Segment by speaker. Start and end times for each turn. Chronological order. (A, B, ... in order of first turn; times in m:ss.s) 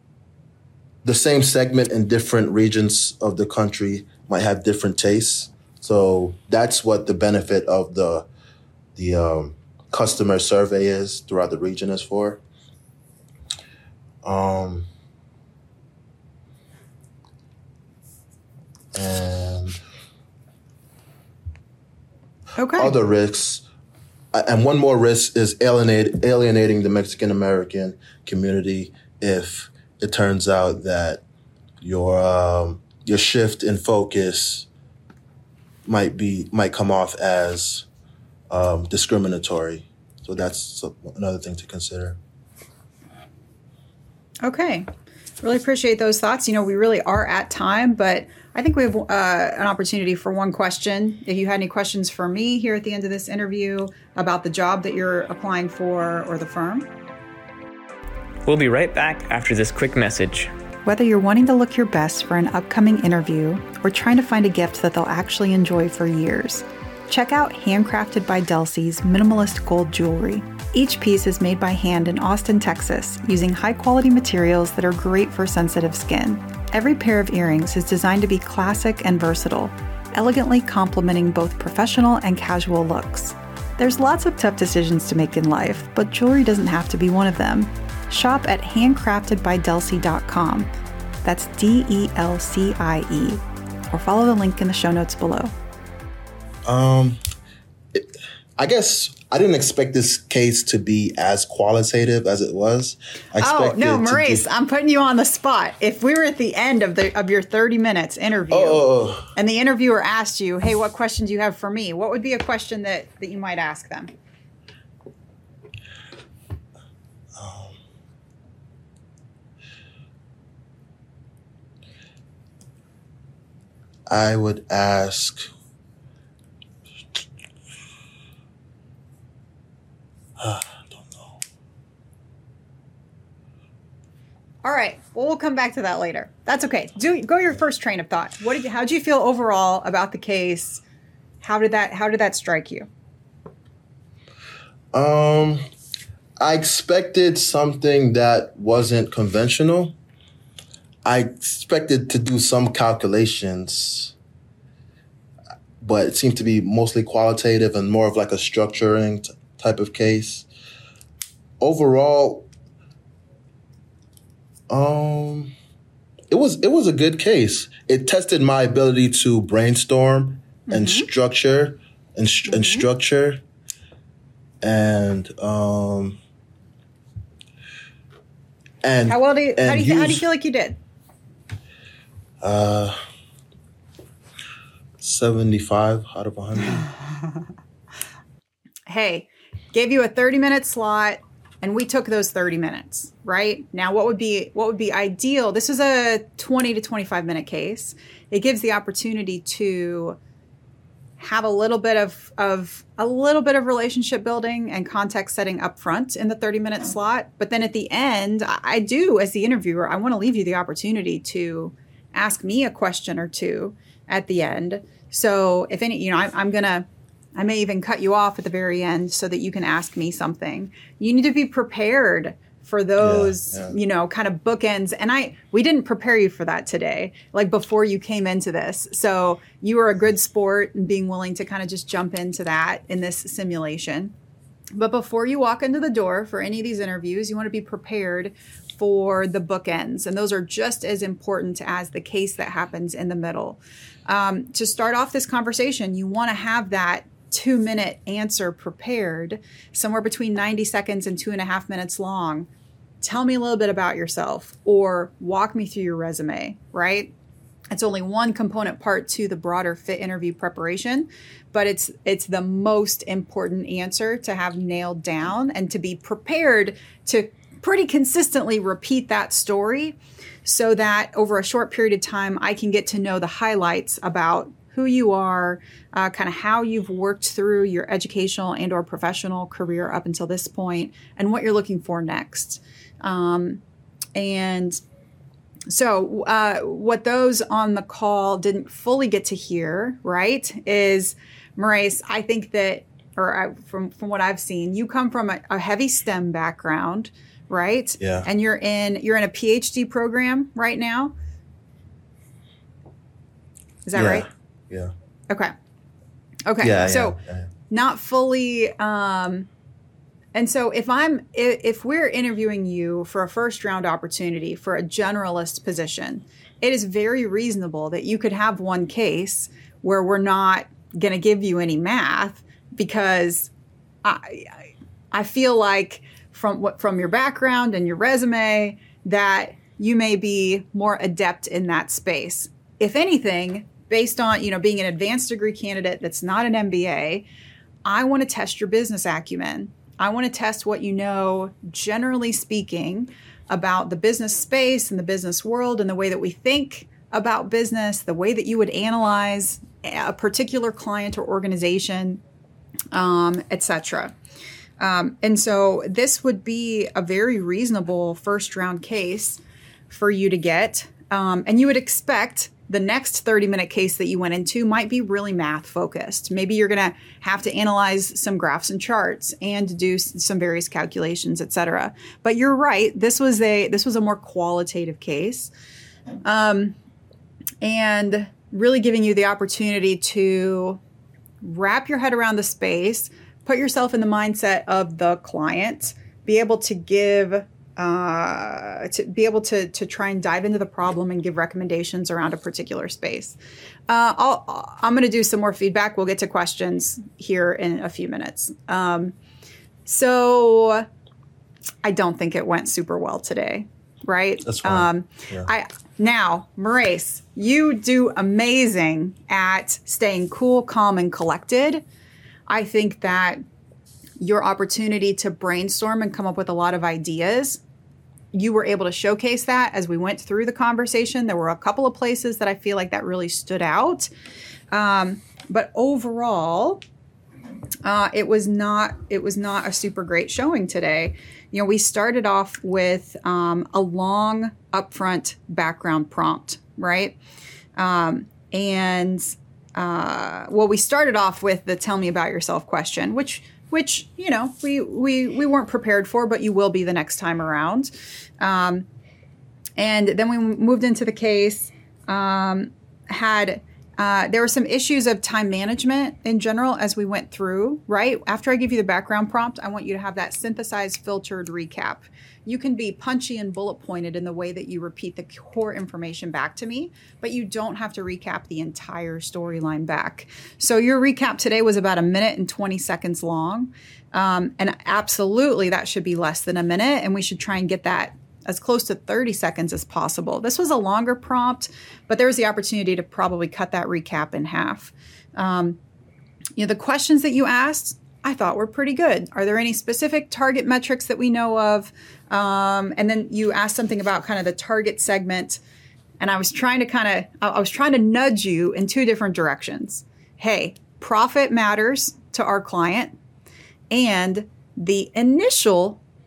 0:01.0-0:08.3 A
0:09.0-0:12.4 A
0:14.2-0:14.9 A
0:18.9-0:19.8 A
0:22.6-0:22.9 B
0:22.8-0:23.6 A
0:24.3-0:31.2 A
0:31.8-0:34.7 A
0:35.9-0:37.9 A
0:38.5-0:42.2 A
0:44.4-0:44.9 B
0:45.4-0:56.9 B
0:58.4-1:00.5 C
1:00.9-1:30.7 B
1:31.2-1:35.5 B
1:36.6-1:37.2 A
1:37.9-1:44.5 A
1:43.4-1:54.1 B
1:48.5-1:49.3 A
1:57.4-1:57.8 A
2:04.1-2:05.5 A
2:10.4-2:11.4 A
2:14.6-2:20.8 B
2:21.4-2:22.9 B
2:24.9-2:25.6 A
2:26.4-2:30.0 A
2:31.0-2:34.2 A
2:35.8-2:40.5 A
2:41.6-2:42.5 A
2:44.7-2:45.6 A
2:46.3-2:53.4 A
2:50.7-2:51.1 B
2:52.5-2:52.8 B
2:54.6-2:56.2 A
2:58.8-3:00.2 A
2:59.1-3:00.8 B
3:02.4-3:03.0 A
3:05.0-3:06.9 A
3:08.9-3:20.2 B
3:21.2-3:54.1 B
3:43.0-3:43.7 A
3:54.8-4:12.5 B
4:13.0-4:17.1 B
4:17.7-4:43.6 B
4:44.2-4:44.8 B
4:45.7-5:01.2 B
4:58.0-4:58.3 A
5:03.9-5:04.3 B
5:03.9-5:04.9 A
5:06.5-5:07.2 B
5:06.6-5:07.5 A
5:07.7-5:09.5 B
5:10.4-5:23.5 B
5:24.0-5:24.6 B
5:25.1-5:37.3 B
5:37.8-5:52.2 B
5:52.9-5:54.2 B
5:54.8-6:15.5 B
6:16.2-6:16.8 B
6:17.6-6:20.8 B
6:21.4-6:33.4 B
6:33.9-6:39.2 B
6:39.9-6:40.9 B
6:41.8-6:51.8 B
6:44.4-6:45.5 A
6:52.5-6:53.4 B
6:54.2-6:57.6 B
6:58.3-7:04.1 B
7:04.7-7:06.8 B
7:07.8-7:17.2 B
7:17.8-7:28.9 B
7:29.8-8:05.8 B
8:06.6-8:15.6 B
8:16.2-8:23.2 B
8:23.9-8:26.0 B